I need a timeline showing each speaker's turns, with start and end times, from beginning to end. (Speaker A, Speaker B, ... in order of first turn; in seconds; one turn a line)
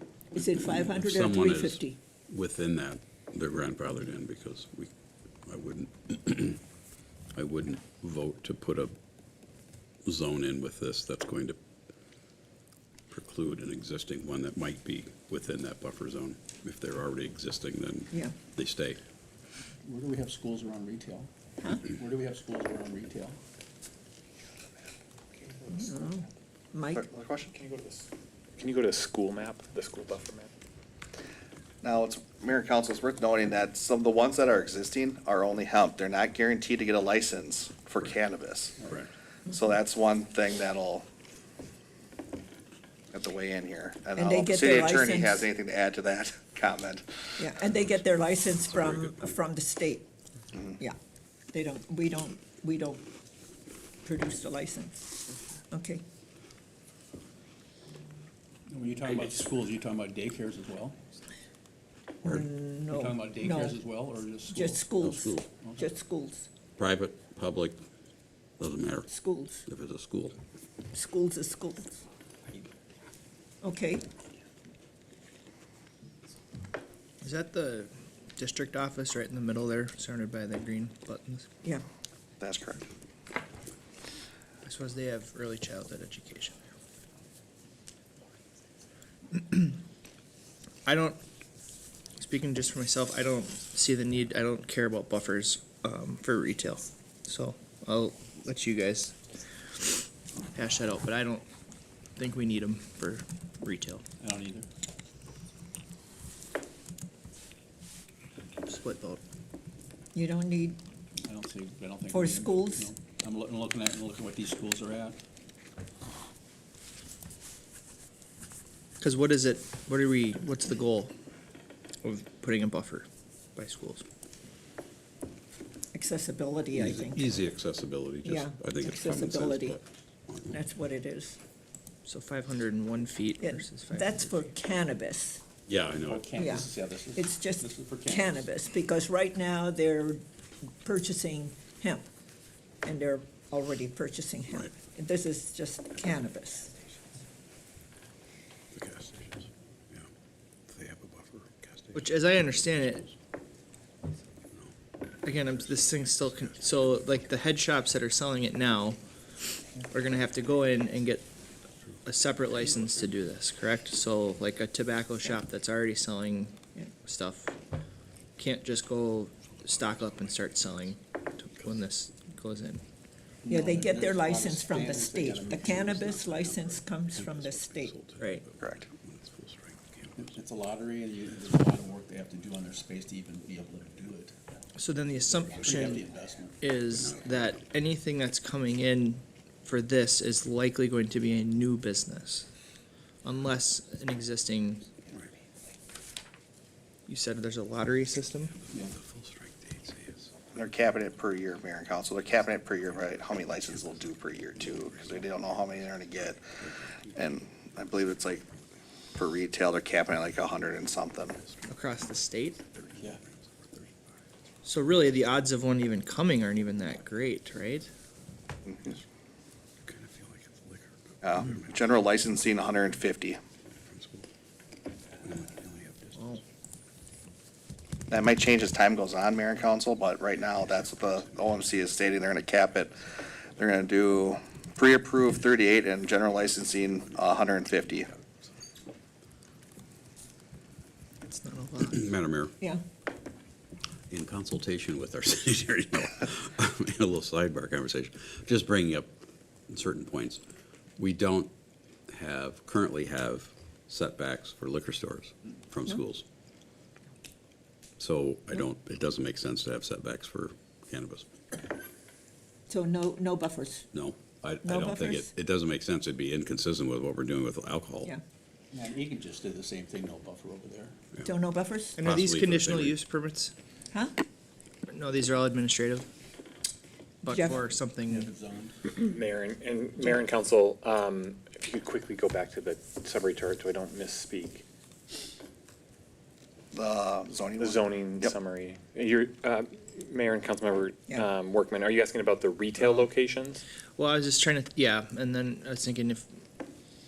Speaker A: 0.3-2.0
Speaker B: 0.3-4.9
Speaker B: 5.5-6.6
Speaker B: 7.3-9.0
Speaker B: 10.1-11.6
Speaker B: 13.1-19.0
Speaker C: 19.8-23.4
Speaker D: 25.4-25.9
Speaker A: 25.7-27.0
Speaker E: 26.9-27.5
Speaker D: 27.5-30.5
Speaker E: 31.8-38.8
Speaker B: 38.9-39.1
Speaker E: 39.5-41.0
Speaker E: 43.1-47.4
Speaker A: 44.2-45.5
Speaker A: 47.4-50.1
Speaker B: 48.5-49.3
Speaker A: 51.5-53.0
Speaker A: 54.0-55.2
Speaker A: 55.7-56.0
Speaker C: 58.7-61.0
Speaker A: 62.2-63.8
Speaker C: 62.9-64.9
Speaker A: 64.5-66.5
Speaker B: 65.0-65.5
Speaker B: 66.8-67.8
Speaker B: 68.6-69.1
Speaker A: 69.1-69.7
Speaker B: 69.7-70.3
Speaker A: 70.9-72.0
Speaker A: 73.6-74.0
Speaker F: 77.2-81.5
Speaker E: 82.4-82.8
Speaker F: 84.6-86.6
Speaker F: 89.3-89.8
Speaker F: 90.8-91.2
Speaker F: 92.2-99.2
Speaker F: 100.5-101.5
Speaker F: 102.2-104.0
Speaker C: 104.2-104.7
Speaker F: 108.7-109.2
Speaker A: 110.2-110.8
Speaker C: 111.2-115.2
Speaker A: 112.1-112.9
Speaker F: 119.0-121.1
Speaker F: 122.0-124.0
Speaker A: 125.9-127.3
Speaker B: 126.7-130.5
Speaker A: 128.2-129.8
Speaker A: 130.5-131.4
Speaker F: 132.1-134.5
Speaker A: 133.4-135.4
Speaker B: 135.7-136.6
Speaker C: 136.0-138.5
Speaker A: 136.4-140.2
Speaker A: 140.8-142.1
Speaker A: 142.8-146.7
Speaker B: 148.7-150.1
Speaker B: 150.7-153.2
Speaker F: 151.9-153.1
Speaker F: 155.2-159.0
Speaker B: 155.6-157.1
Speaker F: 159.8-161.3
Speaker F: 162.1-167.6
Speaker B: 162.6-163.0
Speaker F: 168.4-172.8
Speaker B: 169.5-170.4
Speaker C: 173.4-176.5
Speaker A: 173.5-178.4
Speaker B: 176.5-180.4
Speaker C: 180.2-184.3
Speaker F: 184.8-186.0
Speaker C: 185.5-186.6
Speaker F: 186.6-192.5
Speaker B: 186.9-187.6
Speaker F: 193.2-194.9
Speaker F: 197.1-198.6
Speaker B: 198.6-200.3
Speaker E: 200.6-206.4
Speaker B: 202.3-205.4
Speaker B: 206.2-207.2
Speaker E: 207.2-208.4
Speaker E: 209.2-211.4
Speaker B: 211.3-211.7
Speaker F: 211.7-212.6
Speaker B: 212.7-214.2
Speaker F: 214.6-217.9
Speaker E: 218.7-218.9
Speaker B: 219.8-221.9
Speaker E: 221.2-223.4
Speaker B: 223.8-224.3
Speaker B: 225.2-226.4
Speaker E: 228.1-238.1
Speaker B: 230.6-231.9
Speaker F: 241.2-242.1
Speaker B: 241.9-242.6
Speaker B: 244.1-250.4
Speaker B: 251.0-251.5
Speaker B: 252.1-256.2
Speaker B: 258.0-261.3
Speaker A: 262.7-263.9
Speaker B: 263.9-268.1
Speaker A: 264.6-265.3
Speaker C: 268.7-271.0
Speaker A: 271.2-272.0
Speaker F: 272.0-273.5
Speaker B: 272.0-273.0
Speaker A: 273.9-274.2
Speaker F: 274.9-276.1
Speaker F: 277.2-278.3
Speaker A: 277.3-277.6
Speaker C: 278.1-278.9
Speaker D: 279.0-284.6
Speaker E: 286.7-288.3
Speaker D: 287.6-293.6
Speaker F: 294.0-296.3